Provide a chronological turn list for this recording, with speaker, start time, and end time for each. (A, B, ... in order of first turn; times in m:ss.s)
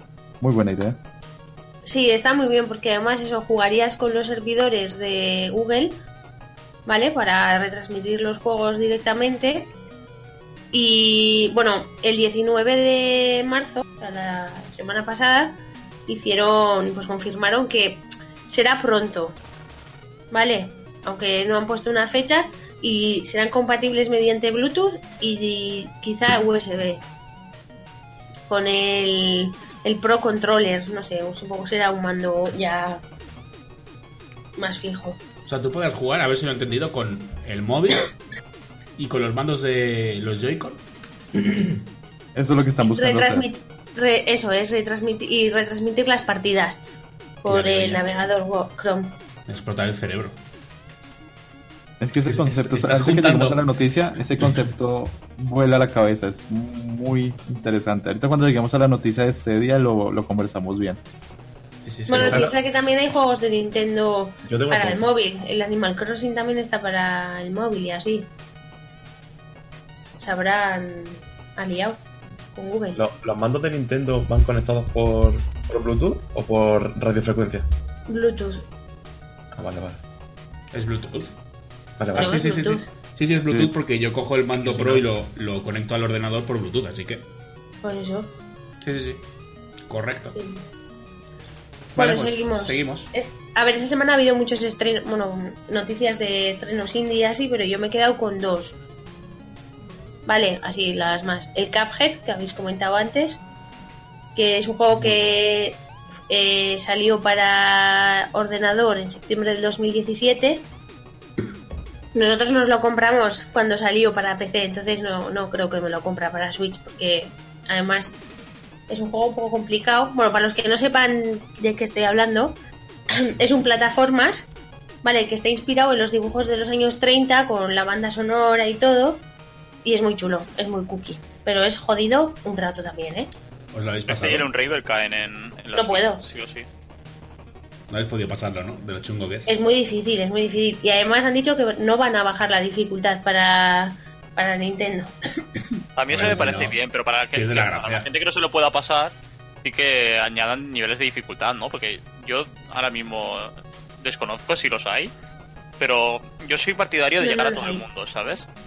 0:00.4-0:01.0 A
0:01.8-0:06.0 B
0:06.8-0:09.7 B
0:10.7-0:19.4 B
0:20.3-0:27.0 B
0:28.5-0:33.0 B
0:34.6-0:35.2 B
0:35.4-0:38.1 C
0:39.0-0:40.8 C
0:41.3-0:41.8 C
0:42.3-0:43.5 A
0:42.8-0:46.8 B
0:47.4-0:49.2 B
0:47.5-0:48.0 C
0:49.5-0:50.4 C
0:52.0-1:01.0 A
0:52.2-0:53.6 C
1:01.8-1:02.5 C
1:02.1-1:08.3 B
1:02.1-1:02.5 D
1:04.4-1:05.0 D
1:10.2-1:12.0 B
1:12.5-1:13.0 B
1:13.0-1:17.6 D
1:18.1-1:18.6 B
1:19.5-1:20.0 D
1:20.7-1:21.3 C
1:22.0-1:22.5 D
1:22.1-1:27.2 C
1:22.1-1:22.9 B
1:23.4-1:23.7 A
1:24.6-1:25.0 D
1:27.8-1:28.3 B
1:28.8-1:29.2 C
1:29.9-1:30.4 C
1:30.3-1:30.6 B
1:31.9-1:33.1 C
1:32.0-1:38.8 B
1:40.2-1:43.4 B
1:44.4-1:50.6 B
1:45.0-1:45.3 C
1:52.1-1:58.2 B
1:58.9-2:02.6 B
2:03.1-2:04.5 B
2:05.0-2:09.2 B
2:09.8-2:13.3 B
2:13.7-2:14.5 C
2:14.1-2:16.7 E
2:15.7-2:16.2 B
2:17.9-2:19.5 C
2:19.5-2:25.4 B
2:26.0-2:35.1 E
2:26.1-2:26.8 C
2:27.3-2:28.1 C
2:35.8-2:38.5 E
2:37.2-2:37.8 B